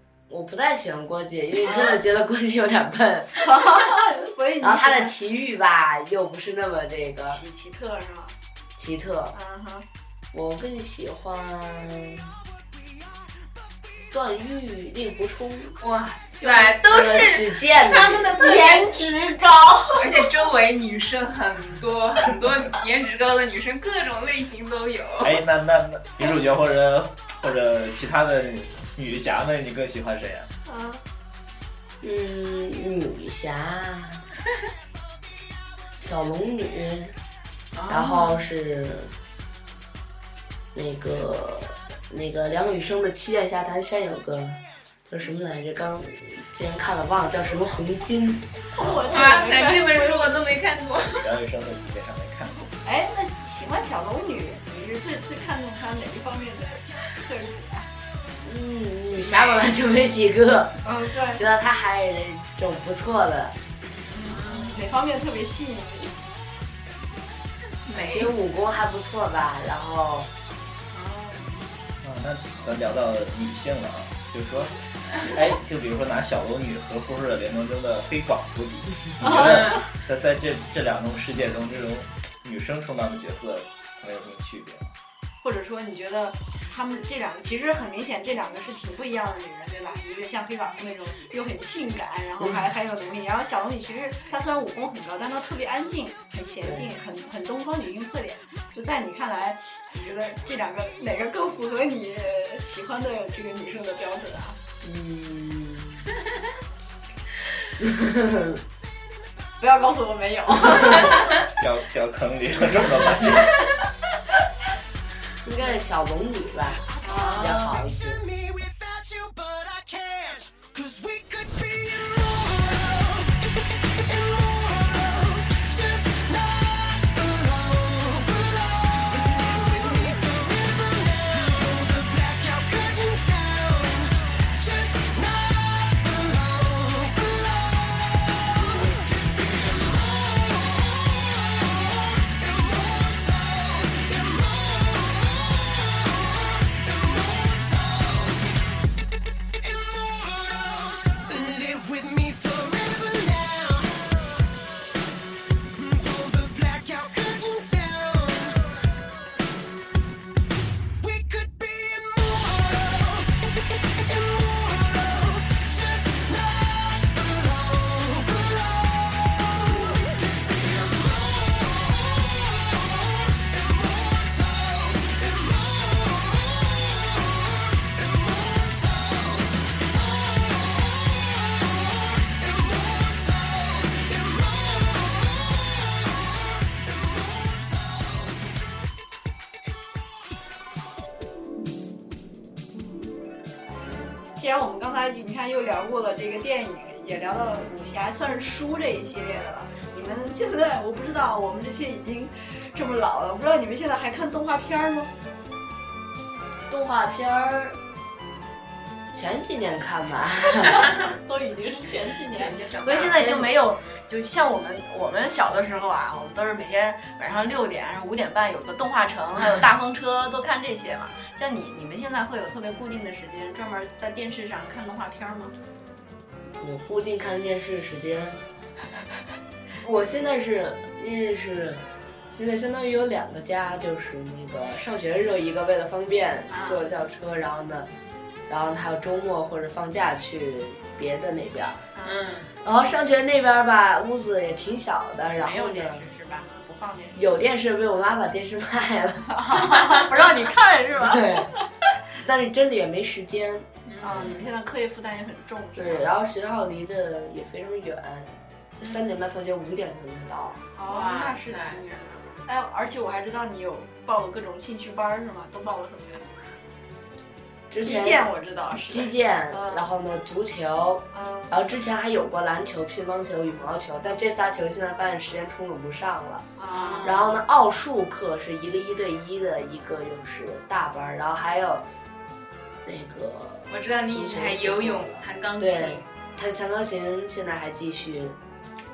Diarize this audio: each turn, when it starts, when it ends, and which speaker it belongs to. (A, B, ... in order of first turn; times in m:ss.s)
0:00.3-0:03.8 A
0:01.6-0:02.0 B
0:03.4-0:05.2 B
0:04.6-0:07.4 A
0:07.2-0:08.4 B
0:08.8-0:09.3 A
0:09.3-0:09.8 B
0:10.3-0:12.4 A
0:14.1-0:15.8 A
0:15.8-0:18.9 C
0:16.4-0:16.8 B
0:16.8-0:18.3 A
0:18.1-0:20.3 B
0:20.0-0:25.4 C
0:25.2-0:30.5 D
0:30.6-0:31.0 B
0:32.0-0:34.2 A
0:36.0-0:37.2 A
0:37.7-0:38.5 C
0:37.9-0:39.1 A
0:40.7-0:48.4 A
0:48.7-0:50.4 B
0:49.1-0:51.3 C
0:51.2-0:52.8 D
0:52.8-0:57.9 B
0:58.4-1:03.6 A
0:59.1-0:59.7 C
1:00.8-1:01.4 B
1:04.1-1:06.2 B
1:04.3-1:04.8 C
1:07.8-1:08.3 C
1:07.9-1:10.3 A
1:10.9-1:11.7 C
1:12.0-1:24.9 D
1:19.2-1:19.8 B
1:19.2-1:19.8 C
1:25.4-1:44.6 B
1:32.4-1:32.6 A
1:44.8-1:46.1 A
1:47.8-1:48.6 A
1:49.6-1:51.4 B
1:50.7-1:51.0 A
1:51.6-1:53.6 D
1:55.4-1:58.2 A
1:57.0-1:57.5 B
1:57.0-1:57.7 C
1:57.5-2:28.6 E
2:29.6-2:34.1 E
2:35.7-2:38.6 E
2:41.0-3:08.3 E
3:14.4-3:25.1 B
3:26.7-3:27.8 A
3:29.1-3:31.0 A
3:30.9-3:45.5 B
3:32.3-3:33.2 C
3:33.1-3:33.5 A
3:46.6-3:48.4 A
3:49.8-3:57.9 A
3:56.5-3:56.8 B
3:58.5-4:01.8 A
4:02.0-4:02.2 B
4:02.0-4:02.5 C
4:02.6-4:06.0 A
4:05.3-4:07.4 B
4:07.1-4:09.4 A
4:09.3-4:11.6 B
4:09.5-4:10.0 C
4:11.0-4:11.5 A
4:12.2-4:13.7 A
4:13.8-4:14.4 C
4:14.0-4:16.1 B
4:15.8-4:20.6 A
4:20.8-4:26.5 B
4:20.8-4:21.8 C
4:27.7-4:28.3 A
4:27.8-4:29.8 B
4:28.8-4:36.5 A
4:31.1-4:31.5 B
4:36.6-4:37.4 B
4:36.7-4:37.3 C
4:37.0-4:41.8 A
4:42.8-4:48.4 A
4:43.7-4:46.0 C